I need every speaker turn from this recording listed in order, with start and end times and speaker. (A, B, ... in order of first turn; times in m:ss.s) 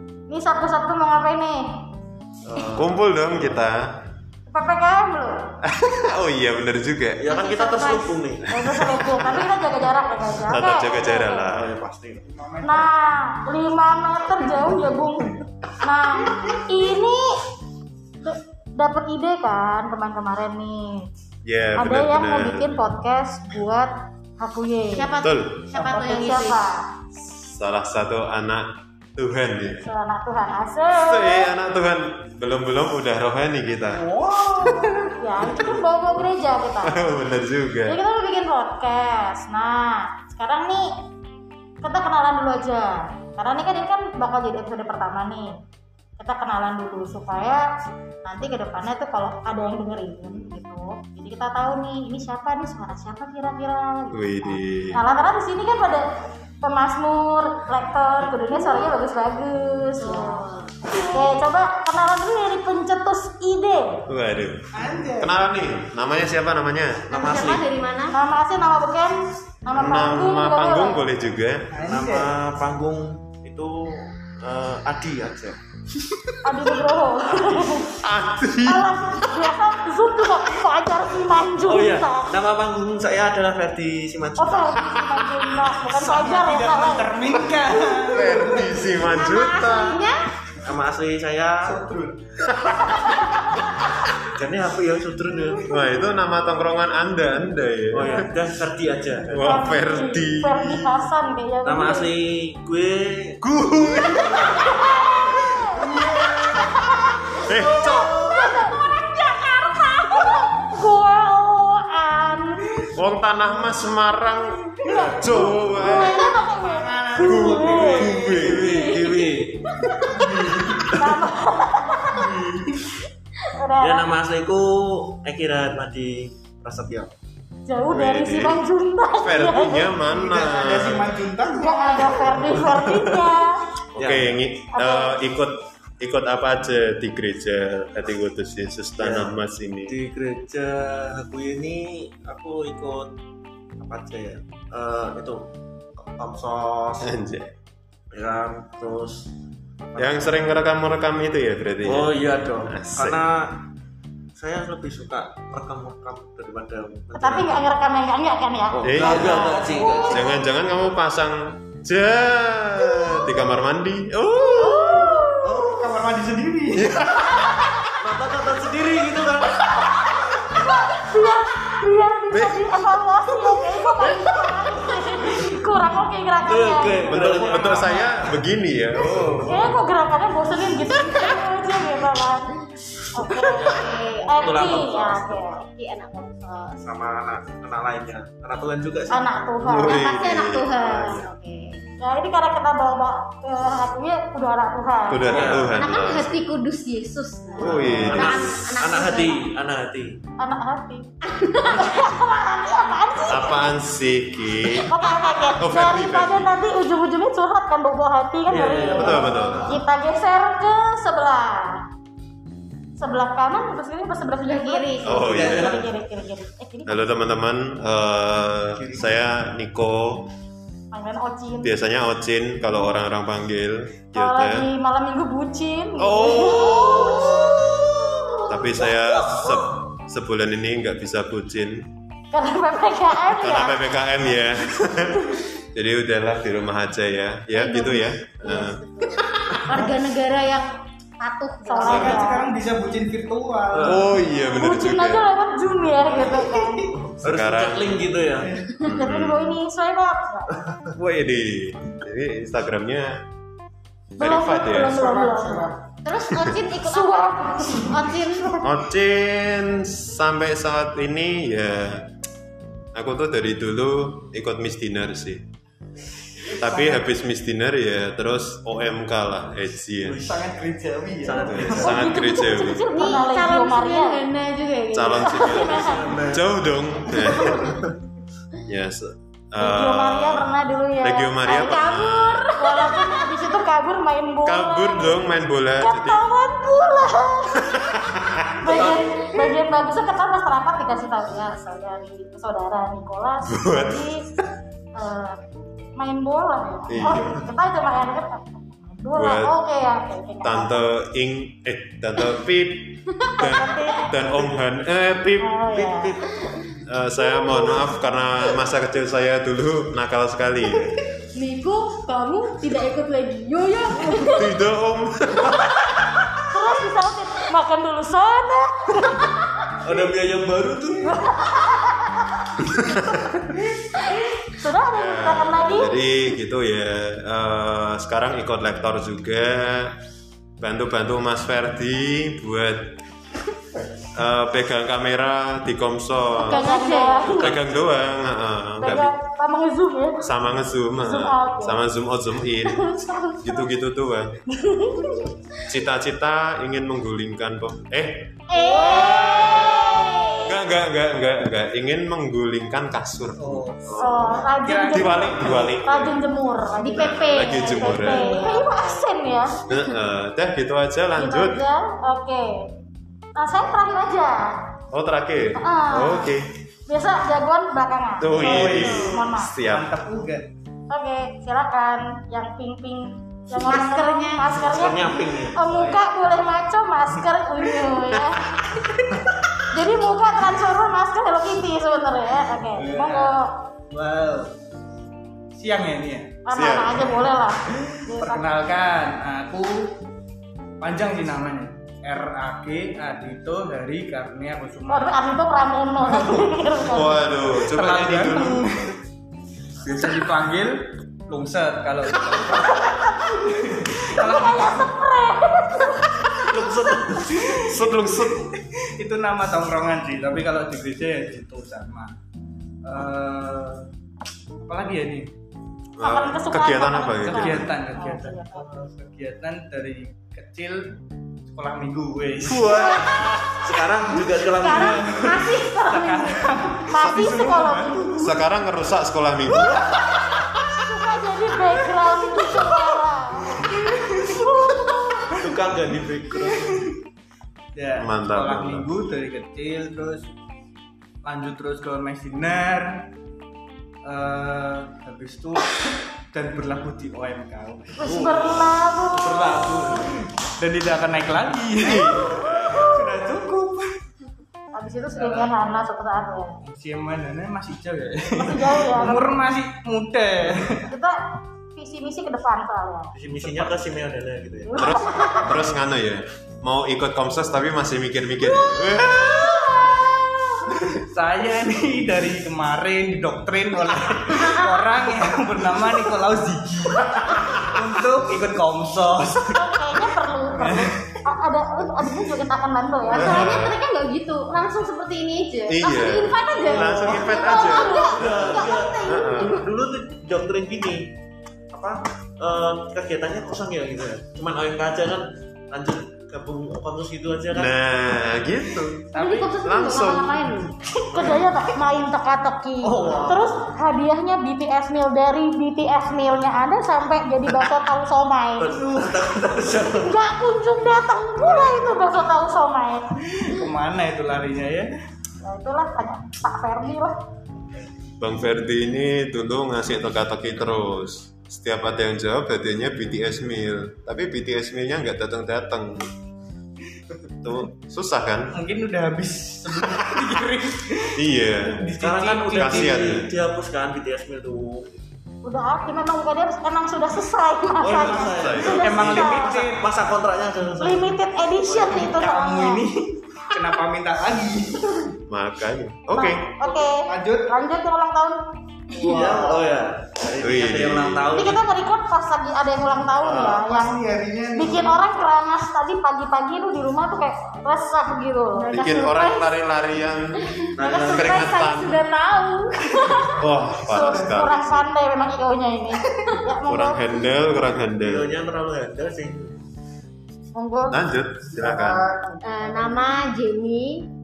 0:00.3-0:01.7 A
0:02.4-0:02.9 B
0:02.7-0:03.8 C
0:04.5-0:05.4 A
0:05.6-0:07.2 C
0:07.2-0:08.5 B
0:07.3-0:08.1 D
0:08.5-0:11.5 A
0:08.6-0:09.5 C
0:10.4-0:11.7 C
0:11.5-0:12.3 B
0:12.3-0:12.9 E
0:12.6-0:17.4 A
0:14.6-0:15.0 E
0:16.3-0:16.6 E
0:18.2-0:21.0 A
0:21.4-0:22.7 C
0:21.8-0:25.1 A
0:24.9-0:26.6 D
0:25.2-0:25.6 C
0:25.7-0:26.8 A
0:27.4-0:29.8 C
0:29.8-0:31.5 A
0:31.0-0:34.0 C
0:33.9-0:35.2 E
0:35.2-0:37.0 A
0:35.4-0:36.1 B
0:36.8-0:38.0 C
0:37.8-0:40.9 A
0:41.8-0:45.5 A
0:46.2-0:47.6 A
0:48.2-0:56.1 A
0:54.1-0:55.0 C
0:56.6-1:00.5 A
0:58.5-0:58.9 D
1:00.0-1:01.3 D
1:01.0-1:04.0 A
1:04.1-1:07.1 C
1:04.7-1:05.4 E
1:07.1-1:07.7 B
1:07.1-1:08.1 D
1:08.1-1:11.0 A
1:09.7-1:11.7 C
1:11.7-1:12.4 E
1:11.8-1:15.6 B
1:16.4-1:18.0 A
1:18.0-1:19.6 C
1:18.6-1:22.3 A
1:21.6-1:24.8 B
1:24.4-1:27.2 A
1:25.0-1:25.2 C
1:25.8-1:28.8 E
1:27.5-1:30.1 C
1:29.0-1:30.2 D
1:30.6-1:31.8 B
1:31.6-1:32.5 E
1:32.4-1:33.6 C
1:32.9-1:33.6 A
1:34.3-1:35.9 B
1:35.6-1:38.3 C
1:37.9-1:39.4 B
1:39.3-1:41.0 C
1:39.4-1:42.1 A
1:41.6-1:43.4 B
1:43.4-1:44.8 C
1:44.4-1:48.7 A
1:46.0-1:46.7 C
1:47.3-1:50.4 D
1:47.4-1:48.2 C
1:50.1-1:52.8 A
1:52.9-1:56.3 C
1:54.8-1:58.1 A
1:54.9-1:55.3 B
1:56.4-1:58.5 E
1:57.2-1:58.9 C
1:58.0-2:01.1 B
1:58.5-2:00.1 D
2:00.1-2:01.0 E
2:00.9-2:02.3 A
2:02.1-2:02.8 E
2:03.5-2:04.1 A
2:03.8-2:07.1 B
2:07.6-2:10.0 A
2:07.9-2:08.6 C
2:09.2-2:11.2 C
2:10.0-2:12.6 E
2:11.5-2:13.6 A
2:12.3-2:13.3 B
2:13.9-2:14.4 B
2:14.0-2:20.0 C
2:14.7-2:15.2 A
2:19.0-2:19.3 B
2:19.9-2:23.1 B
2:23.8-2:25.4 B
2:26.0-2:27.1 B
2:27.0-2:27.5 C
2:28.1-2:29.3 B
2:29.9-2:30.6 B
2:30.0-2:33.2 C
2:31.8-2:33.6 B
2:34.4-2:37.6 B
2:37.2-2:40.3 A
2:38.7-2:40.3 B
2:38.8-2:45.2 C
2:39.1-2:39.9 E
2:42.9-2:43.3 A
2:44.5-2:45.7 A
2:45.4-2:47.1 E
2:46.7-2:47.7 C
2:47.3-2:47.9 A
2:48.0-2:50.1 B
2:50.4-2:57.2 A
2:52.3-2:52.8 C
2:56.4-2:58.4 B
2:57.1-2:59.8 C
2:59.4-3:02.5 A
3:01.1-3:01.4 D
3:03.1-3:05.6 A
3:03.4-3:05.7 B
3:03.4-3:04.9 D
3:05.7-3:06.8 D
3:06.8-3:09.4 B
3:09.1-3:10.1 A
3:09.6-3:11.2 C
3:09.8-3:11.8 D
3:12.0-3:15.5 A
3:15.1-3:16.4 C
3:15.3-3:15.8 B
3:15.5-3:19.4 D
3:17.6-3:20.2 B
3:17.6-3:18.6 C
3:20.4-3:21.1 A
3:21.2-3:21.9 D
3:21.6-3:23.7 A
3:23.3-3:24.9 C
3:24.8-3:31.8 A
3:25.2-3:25.5 D
3:25.6-3:26.5 C
3:28.5-3:29.8 B
3:28.9-3:29.8 C
3:33.0-3:37.1 A
3:34.4-3:35.6 D
3:35.0-3:35.8 C
3:35.3-3:35.7 B
3:35.4-3:35.8 E
3:36.8-3:40.3 C
3:38.8-3:39.2 E
3:40.9-3:41.7 A
3:41.6-3:44.7 C
3:44.1-3:47.5 A
3:46.0-3:47.6 C
3:46.7-3:47.2 D
3:48.4-3:51.9 C
3:52.3-3:53.8 A
3:53.2-3:59.8 C
3:57.5-4:00.7 D
4:01.2-4:02.2 D
4:01.6-4:02.5 A
4:01.8-4:04.1 E
4:01.9-4:02.2 C
4:03.7-4:04.1 B
4:03.8-4:05.3 C
4:04.5-4:06.9 A
4:06.4-4:06.9 E
4:06.9-4:08.5 B
4:07.2-4:08.0 C
4:08.4-4:08.7 E
4:08.8-4:09.4 C
4:08.8-4:10.5 A
4:11.0-4:13.2 C
4:14.2-4:15.8 A
4:14.2-4:15.1 C
4:14.9-4:15.8 E
4:16.0-4:18.7 D
4:16.7-4:18.1 A
4:18.6-4:22.1 C
4:22.9-4:25.4 C
4:26.4-4:27.0 E
4:26.5-4:30.2 C
4:30.0-4:32.0 E
4:31.2-4:31.9 B
4:31.4-4:32.8 C
4:31.8-4:34.2 A
4:32.9-4:35.9 D
4:34.9-4:37.8 C
4:35.2-4:36.0 A
4:35.4-4:36.6 B
4:38.6-4:42.5 C
4:39.6-4:41.8 A
4:41.5-4:43.2 D
4:42.5-4:45.3 A
4:44.4-4:46.3 C
4:45.8-4:54.2 A
4:47.7-4:48.7 C
4:48.7-4:49.0 B
4:48.7-4:49.0 D
4:53.5-4:54.4 C
4:54.9-4:55.4 A
4:56.0-5:00.9 A
4:56.9-4:57.5 C
4:59.2-4:59.5 C
5:00.4-5:05.6 C
5:03.4-5:04.2 A
5:05.4-5:06.1 A
5:05.7-5:06.4 B
5:06.8-5:11.0 C
5:07.4-5:07.8 D
5:11.3-5:14.5 D
5:14.3-5:16.1 C
5:16.5-5:19.4 A
5:19.8-5:21.3 B
5:21.0-5:22.4 A
5:22.8-5:23.2 C
5:24.5-5:25.9 A
5:24.9-5:29.9 C
5:30.6-5:32.9 C
5:34.1-5:36.6 C
5:36.4-5:37.5 A
5:36.4-5:37.5 D
5:37.2-5:39.1 C
5:38.8-5:40.2 A
5:40.2-5:42.9 C
5:41.0-5:41.8 A
5:42.6-5:43.4 D
5:43.4-5:44.4 C
5:44.6-5:45.3 D
5:45.7-5:56.2 C
5:48.5-5:49.9 A
5:48.5-5:50.6 D
5:53.4-5:55.7 E
5:54.0-5:59.6 A
5:56.8-5:59.1 D
5:56.9-5:58.3 C
5:59.7-6:01.6 C
6:01.2-6:02.6 A
6:03.4-6:04.6 A
6:04.9-6:06.5 C
6:05.6-6:06.3 A
6:06.9-6:09.5 A
6:08.2-6:09.9 C
6:08.3-6:10.5 E
6:10.9-6:18.5 A
6:13.5-6:14.7 D
6:14.5-6:15.6 B
6:15.6-6:16.1 E
6:19.7-6:23.5 A
6:22.7-6:24.5 E
6:25.5-6:26.4 E
6:26.4-6:28.5 A
6:26.5-6:27.2 C
6:27.1-6:30.0 E
6:30.8-6:35.2 E
6:34.9-6:37.2 A
6:36.9-6:38.8 C
6:37.5-6:39.0 E
6:39.8-6:44.9 E
6:43.1-6:43.4 A
6:44.1-6:46.5 A
6:46.4-6:47.5 B
6:47.4-6:52.1 E
6:47.6-6:48.5 C
6:52.8-6:53.9 E
6:54.6-6:55.3 E
6:56.0-6:57.7 C
6:56.0-6:58.7 A
6:57.2-7:01.0 E
7:01.5-7:02.8 E
7:02.4-7:03.6 C
7:02.5-7:05.5 B
7:04.6-7:06.5 D
7:04.7-7:08.4 E
7:06.9-7:08.3 A
7:07.0-7:07.6 C
7:08.1-7:10.3 C
7:09.5-7:10.3 E
7:10.7-7:13.8 A
7:13.6-7:14.8 E
7:14.3-7:15.2 A
7:15.3-7:16.8 B
7:16.6-7:16.9 E
7:17.7-7:20.3 E
7:18.0-7:18.9 C
7:21.2-7:23.1 E
7:24.0-7:34.0 E
7:28.0-7:30.0 A
7:31.8-7:33.0 C
7:32.0-7:32.7 A
7:34.7-7:36.6 A
7:35.1-7:35.6 E
7:36.6-7:40.9 E
7:38.4-7:39.3 A
7:40.8-7:41.2 A
7:41.7-7:43.1 A
7:43.1-7:45.0 B
7:43.4-7:43.7 C
7:44.7-7:45.6 A
7:44.8-7:49.6 C
7:49.4-7:50.1 A
7:50.9-7:59.7 E
7:54.3-7:54.9 D
7:57.1-7:57.8 C
7:59.5-8:03.6 A
8:00.5-8:01.2 E
8:03.1-8:09.6 D
8:03.1-8:03.8 C
8:05.7-8:09.6 C
8:06.6-8:11.1 B
8:11.7-8:17.8 B
8:17.5-8:20.6 C
8:19.1-8:21.4 D
8:21.1-8:28.7 A
8:22.8-8:23.6 E
8:28.6-8:30.1 B
8:30.0-8:33.2 A
8:33.2-8:34.9 E
8:35.4-8:37.1 A
8:38.2-8:46.1 C
8:47.4-8:48.5 C
8:48.5-8:53.2 E
8:51.2-8:51.9 C
8:52.0-8:54.9 B
8:52.5-8:53.3 C
8:55.4-8:59.5 A
8:57.8-9:02.0 B
8:57.9-8:59.3 C
8:58.7-8:59.8 E
9:00.8-9:02.8 A
9:01.9-9:05.1 E
9:05.3-9:06.5 C
9:06.1-9:08.4 A
9:06.7-9:07.5 E
9:08.9-9:09.3 A
9:08.9-9:09.6 E
9:09.0-9:11.6 B
9:10.4-9:11.3 C
9:11.1-9:11.5 E
9:11.3-9:18.7 A
9:13.2-9:13.6 B
9:13.6-9:15.0 E
9:18.5-9:19.5 D
9:18.7-9:20.4 C
9:20.5-9:23.4 D
9:20.8-9:21.5 B
9:21.0-9:22.0 C
9:23.4-9:24.8 C
9:23.8-9:27.1 A
9:26.7-9:28.3 C
9:27.9-9:29.6 B
9:30.6-9:31.0 A
9:30.9-9:32.1 C
9:31.7-9:32.3 E
9:32.4-9:34.1 D